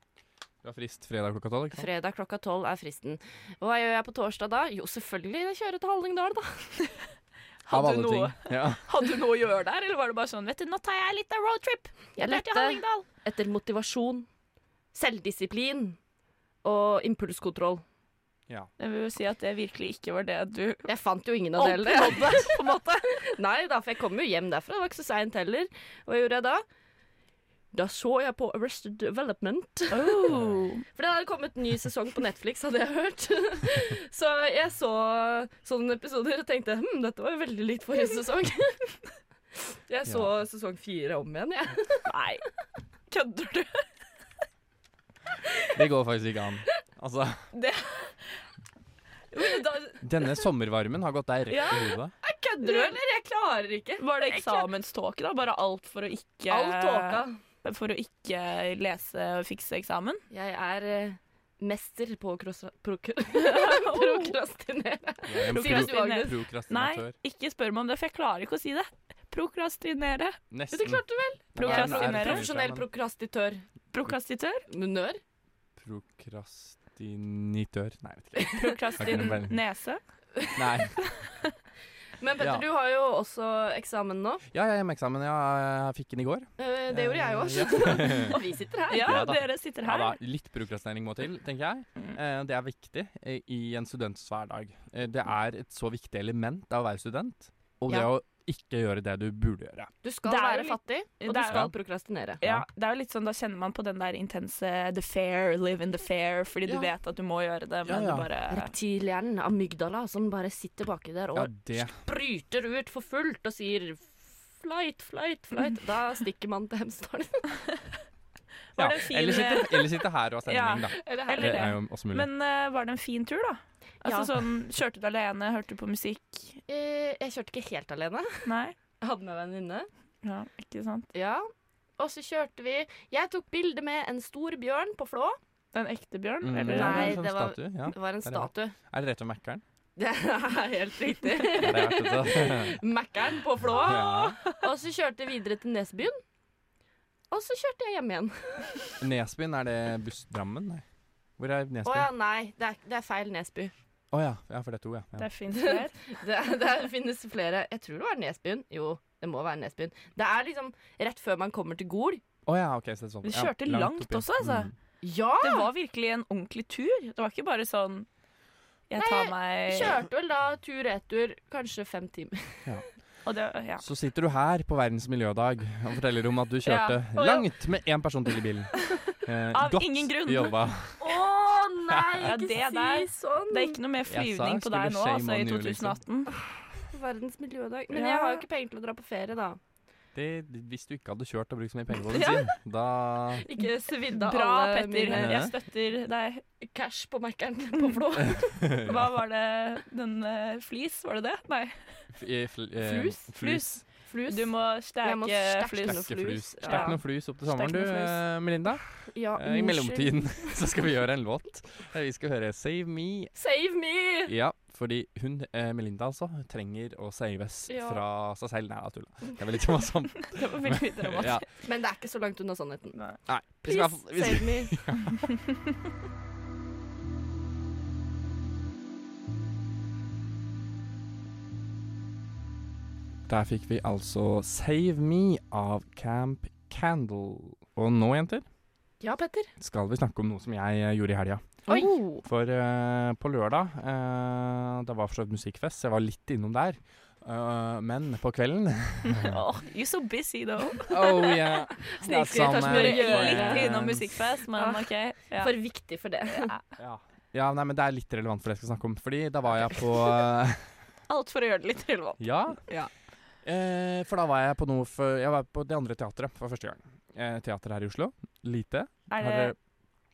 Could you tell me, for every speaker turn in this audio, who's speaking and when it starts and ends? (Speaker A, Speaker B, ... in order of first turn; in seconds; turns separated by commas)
Speaker A: 0.6-1.9, Speaker B: 1.7-6.7, Speaker C: 7.7-13.1, Speaker A: 7.7-8.8, Speaker B: 12.2-14.3, Speaker B: 14.9-16.0, Speaker B: 16.6-17.8, Speaker C: 18.8-20.9, Speaker B: 20.9-22.6, Speaker C: 21.6-23.1, Speaker B: 23.3-26.6, Speaker B: 27.7-30.3, Speaker C: 29.9-30.8, Speaker A: 30.3-30.6, Speaker B: 30.9-38.8, Speaker B: 39.9-42.0, Speaker C: 42.1-42.4, Speaker C: 43.1-43.8, Speaker A: 45.7-47.4, Speaker C: 47.5-48.4, Speaker C: 49.3-50.0, Speaker A: 50.0-52.1, Speaker C: 51.5-52.0, Speaker B: 52.2-54.7, Speaker C: 52.6-53.0, Speaker C: 54.0-60.2, Speaker B: 56.5-57.4, Speaker B: 60.3-66.3, Speaker C: 63.4-64.3, Speaker A: 65.2-67.1, Speaker C: 65.4-70.4, Speaker A: 70.5-72.8, Speaker B: 70.7-73.6, Speaker C: 71.5-72.4, Speaker C: 73.9-74.7, Speaker B: 74.7-75.2, Speaker A: 75.8-79.6, Speaker C: 78.5-80.0, Speaker B: 78.6-79.2, Speaker A: 80.5-81.0, Speaker B: 82.2-84.4, Speaker A: 82.4-82.6, Speaker A: 84.5-88.4, Speaker B: 86.6-89.2, Speaker C: 88.9-90.2, Speaker A: 88.9-99.9, Speaker B: 100.0-102.4, Speaker C: 100.2-101.7, Speaker A: 102.4-102.7, Speaker C: 102.4-108.7, Speaker A: 107.8-108.3, Speaker B: 108.5-117.5, Speaker A: 111.3-112.0, Speaker C: 118.8-126.6, Speaker A: 118.8-122.3, Speaker B: 121.0-121.6, Speaker B: 124.0-124.3, Speaker B: 126.7-128.5, Speaker C: 128.4-128.8, Speaker B: 129.0-129.9, Speaker C: 130.2-131.1, Speaker B: 131.1-131.5, Speaker B: 132.0-135.4, Speaker C: 135.7-137.2, Speaker A: 136.4-139.6, Speaker B: 136.6-138.7, Speaker B: 140.0-146.2, Speaker A: 141.6-142.8, Speaker A: 143.7-144.4, Speaker B: 147.3-148.9, Speaker A: 149.0-150.8, Speaker A: 151.4-152.1, Speaker B: 151.8-153.7, Speaker A: 154.1-155.3, Speaker C: 155.2-155.9, Speaker B: 155.6-162.2, Speaker A: 162.4-164.7, Speaker C: 163.2-164.7, Speaker B: 165.0-165.7, Speaker C: 165.4-168.1, Speaker C: 168.9-170.0, Speaker B: 169.0-172.7, Speaker C: 173.2-173.8, Speaker A: 173.8-181.0, Speaker C: 176.7-177.4, Speaker C: 179.5-180.6, Speaker B: 181.0-183.8, Speaker A: 181.9-182.3, Speaker C: 182.2-186.3, Speaker A: 184.1-186.0, Speaker B: 186.9-189.6, Speaker C: 187.9-188.4, Speaker A: 190.1-193.4, Speaker C: 192.1-192.5, Speaker B: 193.4-195.4, Speaker C: 194.1-196.4, Speaker A: 195.1-195.5, Speaker B: 196.6-198.5, Speaker A: 198.3-199.1, Speaker C: 198.8-202.0, Speaker A: 202.1-203.8, Speaker B: 202.8-203.3, Speaker C: 203.3-203.8, Speaker B: 204.1-207.0, Speaker C: 204.3-208.2, Speaker A: 205.8-213.3, Speaker B: 209.1-210.4, Speaker B: 213.3-214.3, Speaker A: 214.2-221.4, Speaker B: 217.7-218.0, Speaker C: 220.3-221.4, Speaker B: 221.6-223.0, Speaker A: 223.3-225.3, Speaker B: 223.6-224.8, Speaker A: 233.3-238.4, Speaker B: 239.0-239.5, Speaker A: 239.6-249.4, Speaker B: 241.7-242.2, Speaker C: 249.1-251.4, Speaker A: 250.9-254.1, Speaker B: 251.8-253.8, Speaker C: 252.2-255.5, Speaker B: 254.6-256.5, Speaker A: 256.8-260.7, Speaker C: 261.1-262.9, Speaker A: 262.2-262.6, Speaker A: 263.4-269.6, Speaker C: 269.1-269.5